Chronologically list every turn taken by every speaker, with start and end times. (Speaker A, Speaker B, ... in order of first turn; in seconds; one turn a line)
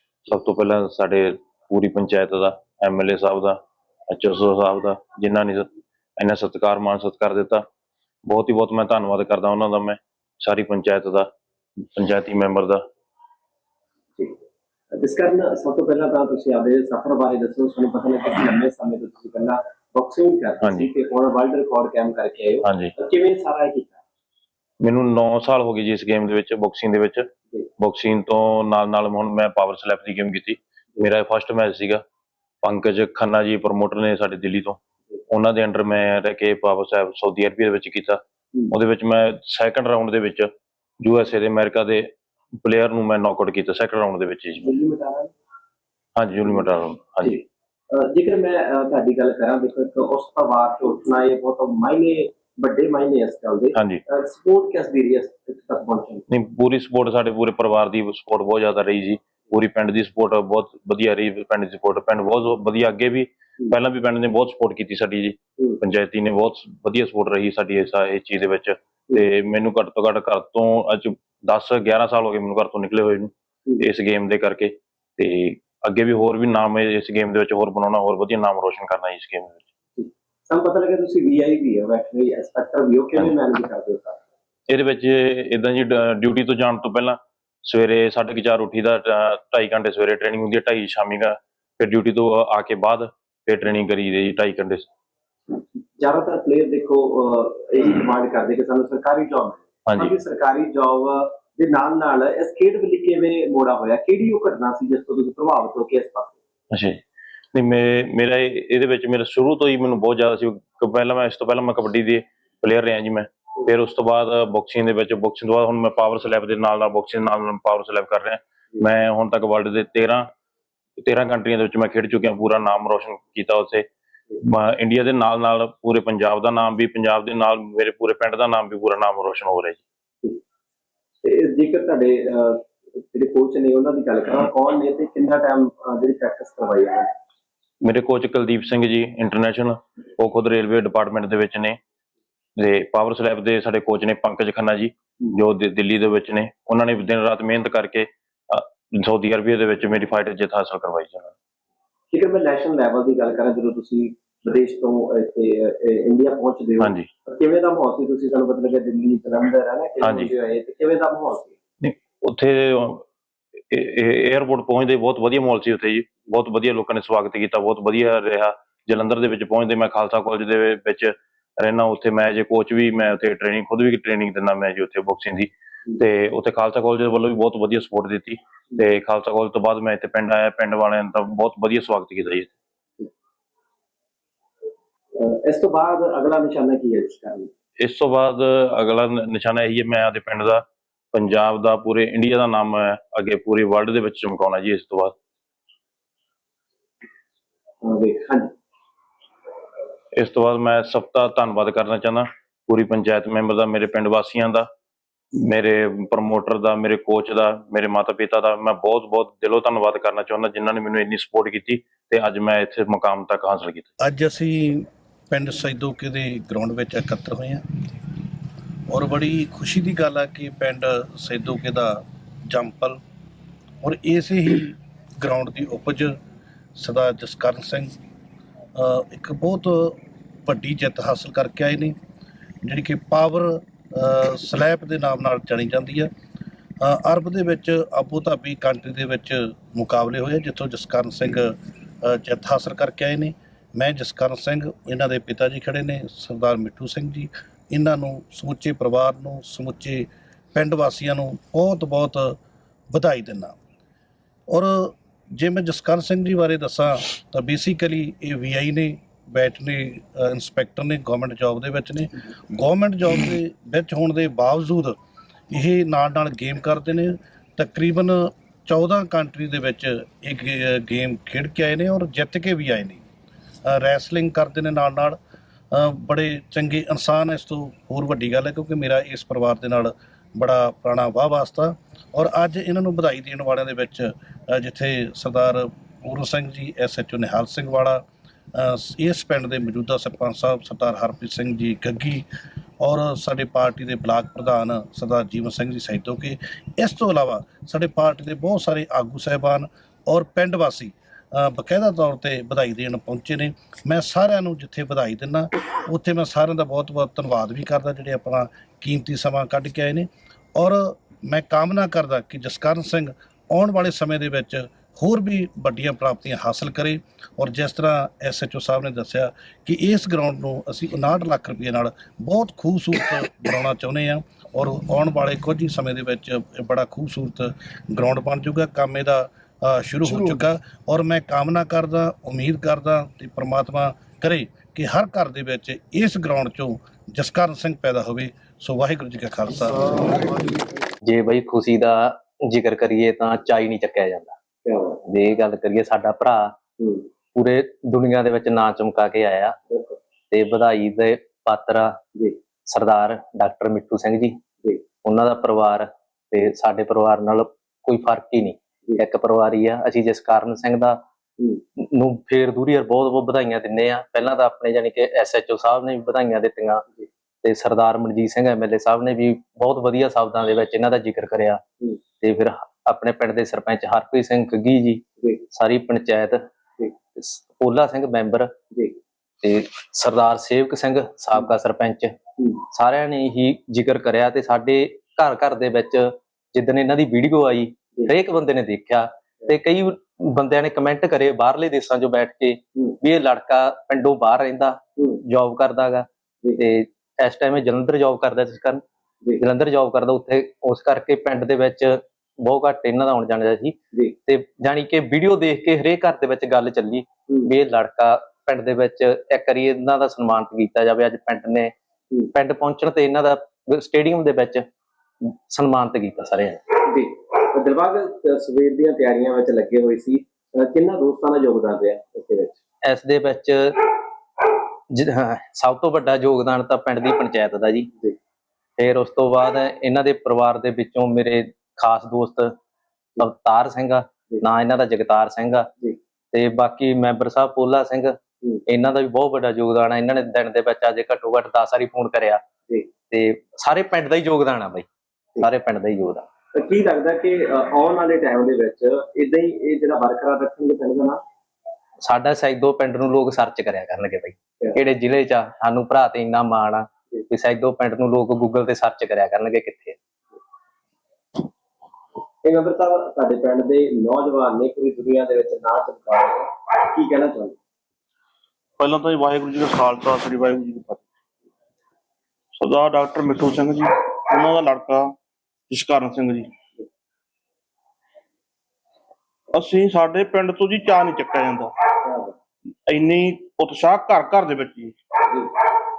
Speaker A: 0.3-3.6
Speaker A: 4.1-5.7
Speaker A: 6.2-7.6
Speaker A: 8.3-11.3
Speaker A: 12.0-12.8
Speaker B: 14.9-24.0
Speaker A: 20.6-20.9
Speaker A: 22.6-22.9
Speaker A: 24.8-27.3
Speaker A: 27.8-32.0
Speaker A: 32.6-34.8
Speaker A: 35.3-42.1
Speaker A: 42.6-44.7
Speaker B: 44.6-45.3
Speaker A: 46.2-47.4
Speaker B: 47.2-56.2
Speaker A: 53.8-54.0
Speaker A: 56.3-79.6
Speaker B: 80.0-84.2
Speaker A: 84.7-94.9
Speaker B: 96.0-106.4
Speaker A: 99.9-100.1
Speaker A: 106.7-107.0
Speaker A: 107.5-120.3
Speaker A: 121.0-123.9
Speaker A: 124.5-129.8
Speaker B: 131.2-137.1
Speaker A: 137.8-141.8
Speaker A: 142.6-151.2
Speaker B: 152.1-161.5
Speaker A: 156.8-157.1
Speaker A: 160.0-160.3
Speaker A: 161.8-163.0
Speaker A: 163.7-182.5
Speaker B: 185.2-187.5
Speaker A: 187.8-190.6
Speaker A: 191.1-195.1
Speaker B: 197.8-198.5
Speaker A: 200.1-204.7
Speaker A: 205.5-213.8
Speaker C: 214.0-217.6
Speaker C: 218.9-223.0
Speaker C: 223.8-226.2
Speaker C: 226.8-227.9
Speaker C: 228.8-232.0
Speaker C: 232.6-236.1
Speaker C: 236.8-252.4
Speaker C: 252.9-253.6
Speaker C: 254.5-265.0
Speaker C: 265.5-273.0
Speaker C: 273.6-275.2
Speaker C: 275.7-288.0
Speaker C: 288.5-292.3
Speaker C: 292.8-340.4
Speaker D: 341.1-344.4
Speaker B: 344.6-345.0
Speaker D: 345.1-346.6
Speaker B: 346.8-347.1
Speaker D: 347.3-349.6
Speaker B: 349.7-350.0
Speaker D: 350.3-352.0
Speaker D: 352.7-354.4
Speaker D: 355.0-361.0
Speaker D: 361.8-366.8
Speaker D: 367.4-371.6
Speaker D: 372.2-376.4
Speaker D: 377.1-378.5
Speaker D: 379.4-382.1
Speaker D: 382.7-396.1
Speaker D: 396.6-398.8
Speaker D: 399.4-411.7
Speaker D: 412.3-414.6
Speaker D: 415.2-416.6
Speaker B: 416.8-422.6
Speaker D: 422.9-423.7
Speaker D: 424.9-427.9
Speaker D: 428.8-432.5
Speaker D: 433.2-435.7
Speaker D: 436.3-438.1
Speaker D: 438.7-442.4
Speaker D: 443.1-444.9
Speaker D: 445.5-446.2
Speaker B: 446.5-451.2
Speaker D: 452.0-460.0
Speaker B: 462.4-467.6
Speaker E: 468.8-471.1
Speaker E: 472.6-475.2
Speaker E: 475.7-476.5
Speaker E: 479.5-481.7
Speaker E: 482.9-485.5